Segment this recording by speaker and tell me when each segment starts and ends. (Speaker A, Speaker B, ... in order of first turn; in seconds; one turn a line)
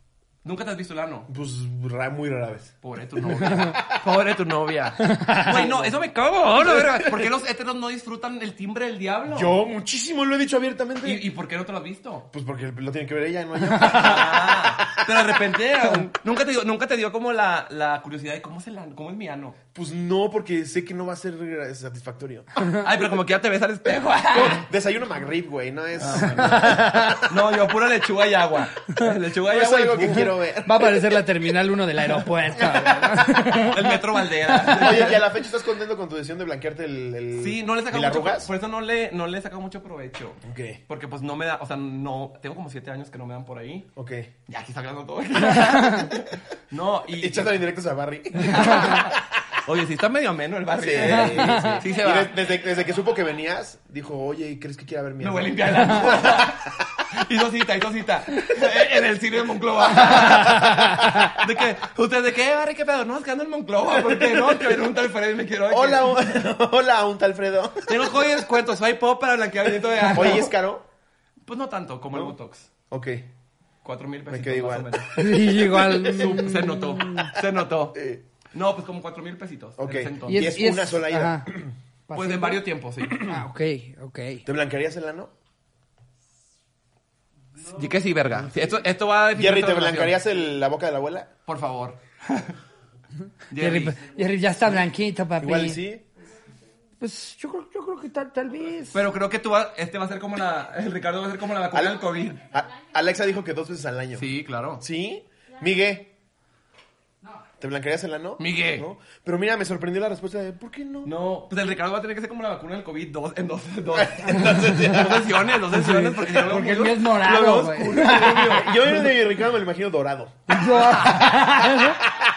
Speaker A: 0.4-1.3
Speaker B: 1.3-4.0
Speaker A: 2.8-9.6
Speaker C: 5.0-5.7
Speaker B: 5.5-6.0
Speaker B: 6.6-7.0
Speaker B: 9.3-11.3
Speaker A: 11.0-12.3
Speaker B: 12.3-15.4
Speaker A: 13.8-19.6
Speaker B: 19.8-22.5
Speaker A: 22.8-24.6
Speaker B: 24.3-27.4
Speaker A: 26.0-30.4
Speaker C: 26.5-27.2
Speaker B: 29.4-31.2
Speaker C: 30.6-33.8
Speaker B: 32.6-33.2
Speaker A: 33.6-35.2
Speaker B: 34.7-38.5
Speaker A: 37.4-43.9
Speaker B: 40.4-40.8
Speaker B: 44.0-44.3
Speaker A: 44.5-47.5
Speaker C: 45.8-46.1
Speaker B: 47.2-49.1
Speaker A: 48.4-52.4
Speaker B: 50.8-56.6
Speaker C: 51.1-51.8
Speaker A: 55.2-66.3
Speaker C: 60.5-61.2
Speaker B: 64.2-64.4
Speaker B: 65.7-68.0
Speaker A: 67.8-70.5
Speaker B: 70.1-70.8
Speaker A: 71.5-72.7
Speaker B: 72.9-73.3
Speaker A: 73.8-75.1
Speaker B: 74.3-76.4
Speaker C: 75.2-77.3
Speaker A: 76.0-80.5
Speaker B: 77.9-78.2
Speaker B: 79.8-81.7
Speaker C: 80.3-81.5
Speaker C: 82.1-84.4
Speaker A: 82.1-83.4
Speaker B: 84.5-85.3
Speaker A: 87.7-90.2
Speaker B: 89.3-91.3
Speaker A: 91.5-92.5
Speaker A: 93.5-94.0
Speaker C: 93.6-95.8
Speaker B: 95.4-96.0
Speaker C: 97.0-99.0
Speaker A: 98.9-102.5
Speaker B: 101.7-104.2
Speaker A: 104.2-104.8
Speaker B: 104.8-106.1
Speaker B: 107.6-111.1
Speaker A: 108.4-108.9
Speaker A: 111.0-118.5
Speaker B: 114.0-115.5
Speaker C: 114.6-115.0
Speaker C: 115.7-118.9
Speaker B: 117.2-120.6
Speaker C: 120.5-122.0
Speaker A: 120.8-121.2